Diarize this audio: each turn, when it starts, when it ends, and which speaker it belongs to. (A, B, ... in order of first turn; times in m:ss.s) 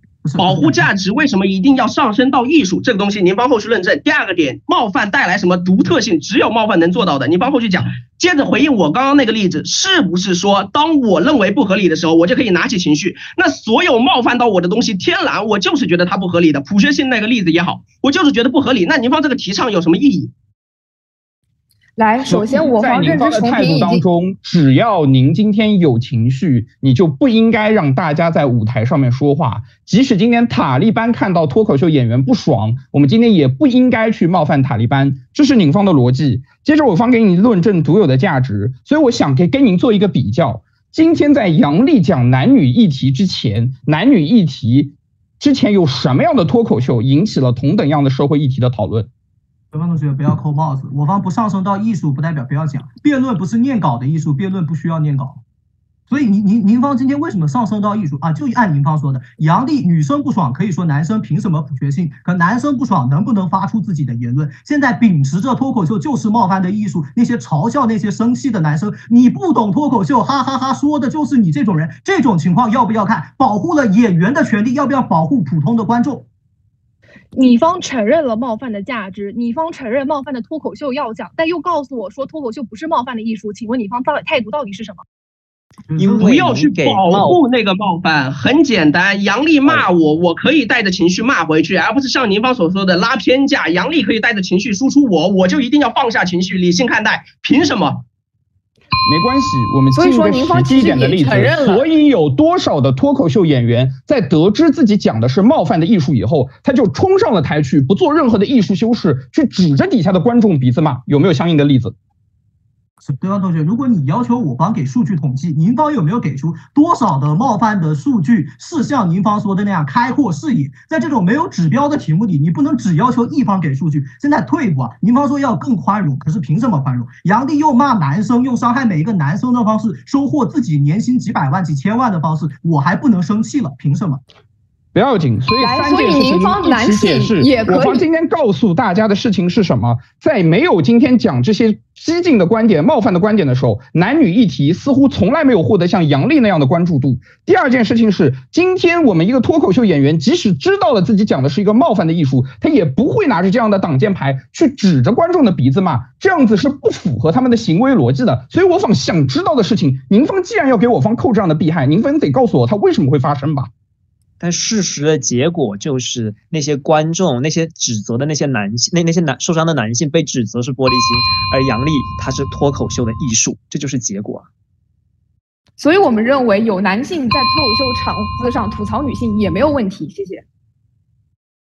0:00.2-0:00.9 A
0:00.4-0:20.3 B
0:22.0-0:24.0 C
0:22.3-0:49.1 D
0:49.7-0:55.4 A
0:56.1-1:16.3 A
1:17.3-1:25.0 E
1:25.9-1:27.4 F
1:26.1-1:26.3 A
1:26.1-1:38.0 B
1:39.1-1:51.9 D
1:39.9-1:41.9 C
1:53.0-2:14.2 A
2:14.9-2:43.7 D
2:15.6-2:18.1 C
2:44.4-2:54.5 F
2:55.8-3:00.4 C